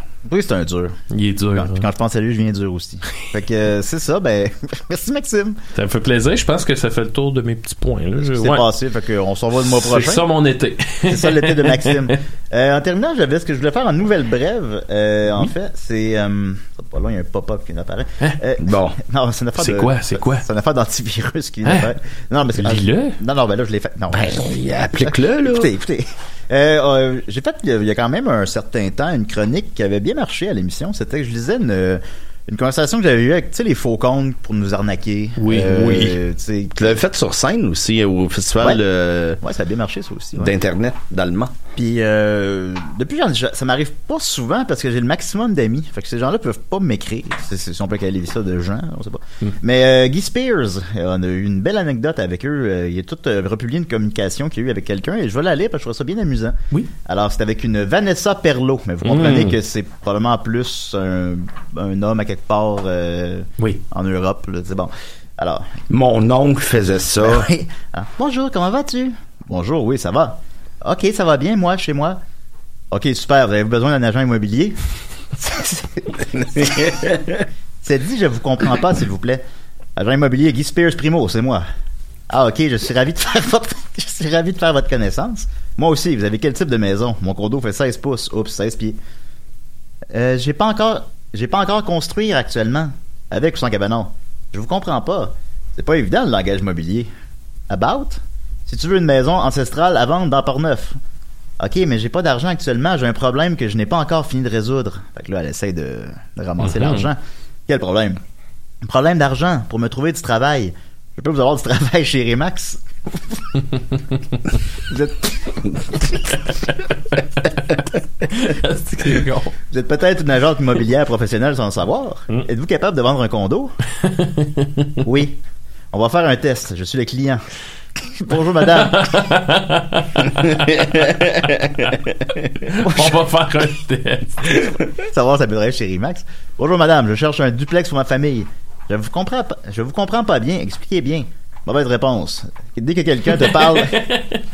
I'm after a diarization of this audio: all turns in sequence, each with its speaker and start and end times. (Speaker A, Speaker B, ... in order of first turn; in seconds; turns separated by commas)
Speaker A: 0.2-0.9, Speaker B: 1.1-1.9, Speaker A: 1.6-5.6, Speaker B: 5.8-8.7, Speaker A: 8.2-10.3, Speaker B: 9.7-12.2, Speaker A: 11.1-24.5, Speaker C: 18.6-19.0, Speaker B: 19.6-20.4, Speaker B: 21.6-21.9, Speaker B: 22.6-23.2, Speaker C: 24.1-25.7, Speaker A: 25.0-37.0, Speaker B: 35.4-36.1, Speaker C: 35.6-36.1, Speaker C: 36.8-39.4, Speaker A: 39.4-40.5, Speaker C: 40.4-41.5, Speaker A: 41.8-65.7, Speaker B: 59.0-59.6, Speaker C: 65.9-67.5, Speaker A: 67.2-72.2, Speaker A: 72.9-74.8, Speaker A: 75.4-76.9, Speaker C: 76.6-77.4, Speaker A: 77.8-79.4, Speaker A: 80.0-81.6, Speaker A: 82.3-89.0, Speaker A: 90.1-97.1, Speaker A: 97.7-101.0, Speaker A: 101.6-108.2, Speaker B: 106.7-107.0, Speaker A: 108.8-113.4, Speaker A: 114.9-115.6, Speaker B: 118.3-119.5, Speaker A: 119.7-123.8, Speaker B: 124.0-124.9, Speaker A: 125.0-125.4, Speaker A: 125.9-127.4, Speaker A: 128.2-129.1, Speaker B: 128.7-131.2, Speaker B: 132.7-134.7, Speaker A: 132.8-133.2, Speaker A: 135.0-144.0, Speaker B: 143.8-144.4